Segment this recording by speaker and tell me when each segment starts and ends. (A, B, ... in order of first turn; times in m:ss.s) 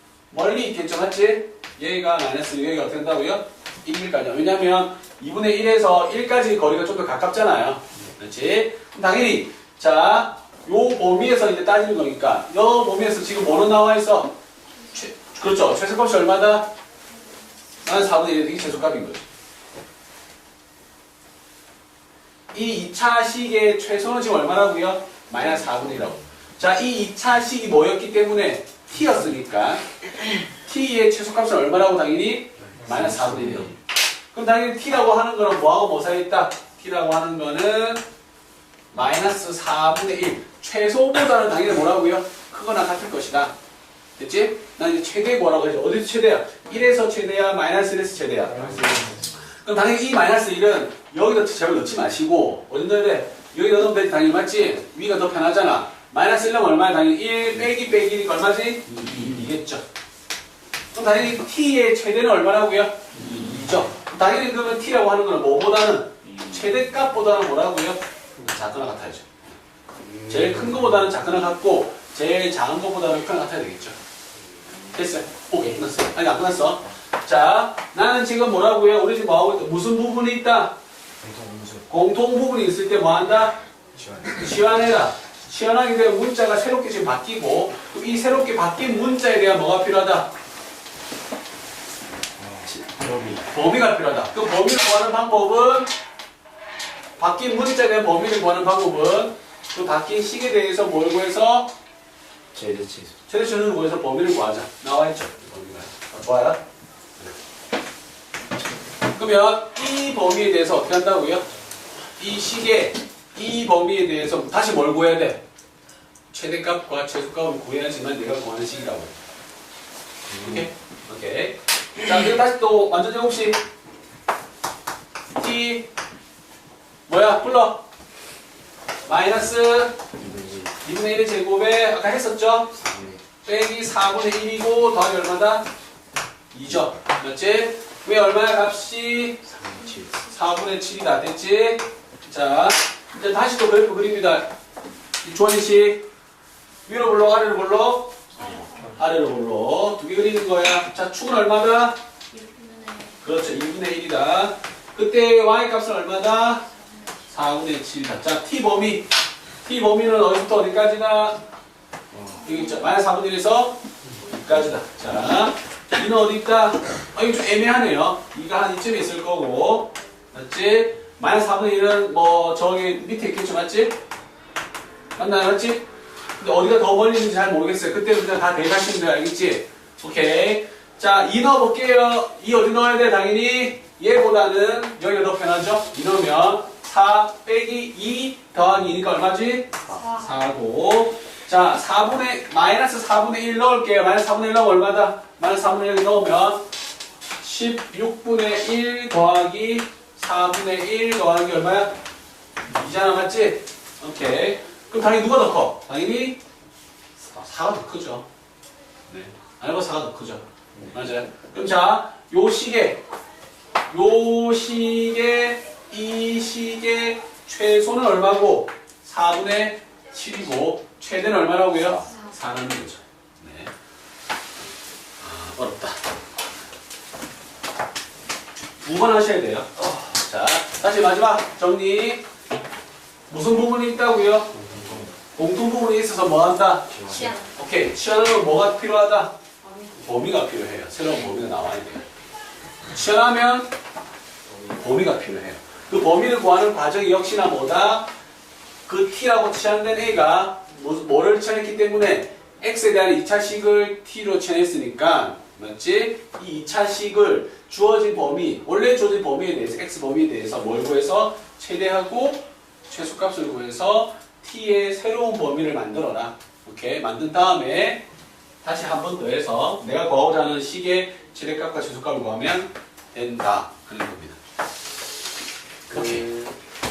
0:00.3-0:14.3 A
0:14.9-0:16.7 A
0:17.2-0:18.0 B
0:17.8-0:19.2 A
0:22.5-0:29.8 A
0:30.6-0:33.8 A
0:32.8-0:33.7 C
0:34.3-0:38.0 A
0:38.9-0:43.5 A
0:44.2-0:59.8 A
0:48.6-0:49.2 C
1:00.9-1:09.5 A
1:10.0-1:10.9 C
1:10.3-1:14.0 A
1:14.9-1:20.7 A
1:21.2-1:21.8 C
1:21.9-1:23.6 A
1:24.0-1:24.4 C
1:24.2-1:30.3 A
1:32.4-1:33.4 C
1:33.3-1:35.9 A
1:37.2-1:41.7 A
1:42.5-1:43.1 C
1:43.2-1:46.6 A
1:49.1-1:51.4 A
1:52.2-1:55.4 A
1:56.3-1:59.2 A
2:00.3-2:00.7 C
2:00.3-2:03.6 A
2:05.3-2:05.9 A
2:07.1-2:07.8 A
2:09.0-2:10.0 A
2:10.2-2:10.6 C
2:10.8-2:12.8 A
2:12.8-2:13.2 C
2:13.4-2:15.7 A
2:16.5-2:19.5 A
2:19.5-2:20.1 C
2:20.2-2:24.5 A
2:25.2-2:26.0 A
2:26.9-2:32.0 A
2:28.4-2:28.9 B
2:32.3-2:33.2 B
2:33.2-2:36.6 A
2:36.5-2:37.3 B
2:37.3-2:39.1 A
2:39.6-2:41.4 A
2:42.3-2:54.0 A
2:55.2-2:55.8 A
2:56.4-3:16.6 A
3:10.0-3:10.2 B
3:17.4-3:21.9 A
3:22.7-3:26.4 A
3:27.2-3:28.2 A
3:29.1-3:33.0 A
3:33.9-3:43.7 A
3:45.2-3:46.0 A
3:48.8-3:52.2 A
3:53.3-3:54.6 A
3:54.7-3:55.1 C
3:55.3-3:59.3 A
3:56.9-3:57.3 C
3:57.1-3:57.5 B
3:59.6-3:59.9 B
3:59.9-4:02.1 A
4:02.9-4:03.7 A
4:04.6-4:08.1 A
4:08.8-4:28.0 A
4:28.6-4:34.4 A
4:35.9-4:36.5 C
4:35.9-4:36.4 A